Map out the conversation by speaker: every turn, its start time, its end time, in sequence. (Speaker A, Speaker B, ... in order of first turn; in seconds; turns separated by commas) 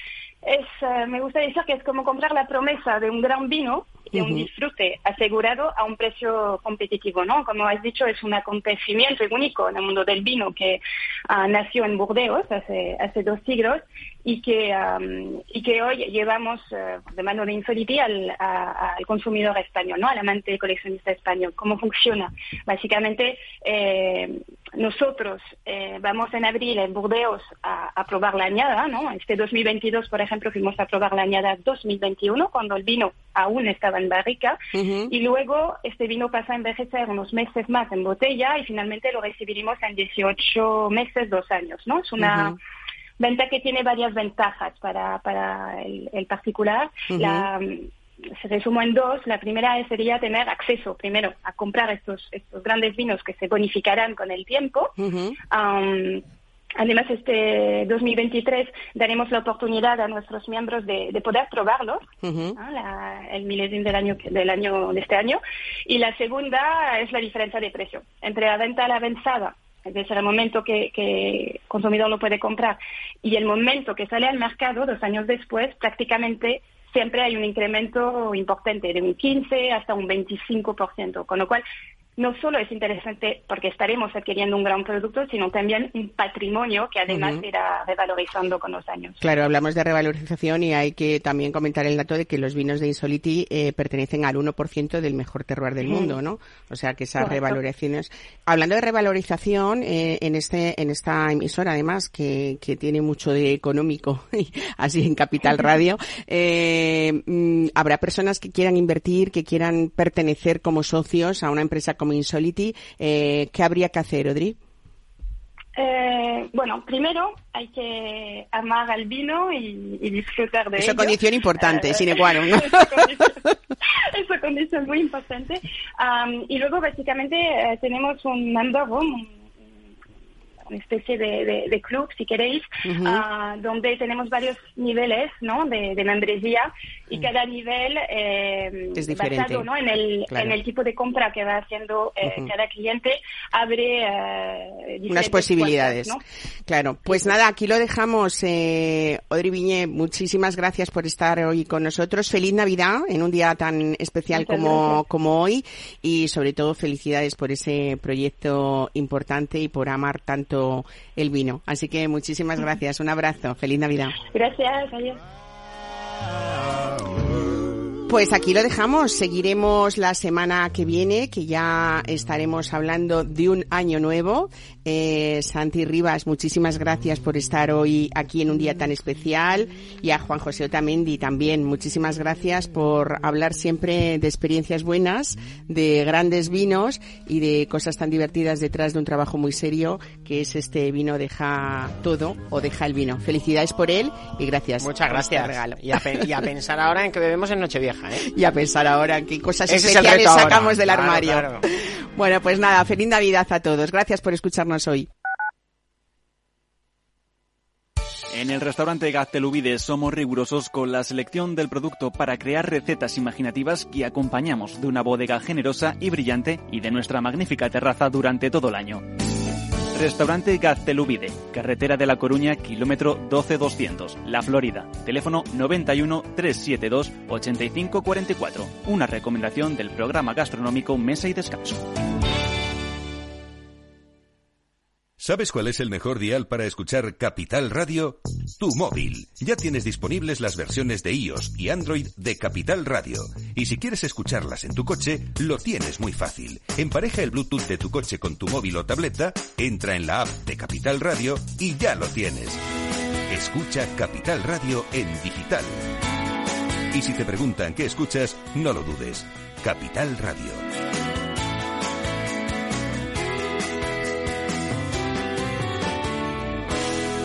Speaker A: 0.4-42.6, Speaker B: 4.1-4.5, Speaker B: 34.7-35.1, Speaker B: 42.2-42.6, Speaker A: 43.2-55.0, Speaker B: 47.1-47.5, Speaker B: 55.0-55.4, Speaker A: 55.5-56.2, Speaker A: 56.8-81.7, Speaker B: 62.2-62.6, Speaker A: 82.2-89.2, Speaker B: 87.1-87.4, Speaker B: 89.2-114.6, Speaker A: 97.2-97.6, Speaker A: 115.8-123.4, Speaker B: 120.8-123.2, Speaker A: 124.1-129.4, Speaker A: 130.7-146.2, Speaker B: 132.9-133.2, Speaker B: 139.0-139.7, Speaker B: 140.3-140.5, Speaker B: 145.1-164.2, Speaker A: 147.0-147.4, Speaker A: 154.3-155.0, Speaker A: 164.3-165.2, Speaker B: 168.1-196.3, Speaker C: 194.8-198.3, Speaker B: 198.2-205.1, Speaker C: 199.7-201.7, Speaker D: 208.3-219.0, Speaker D: 219.9-231.8, Speaker E: 235.2-252.6, Speaker E: 253.3-255.9, Speaker E: 256.9-260.7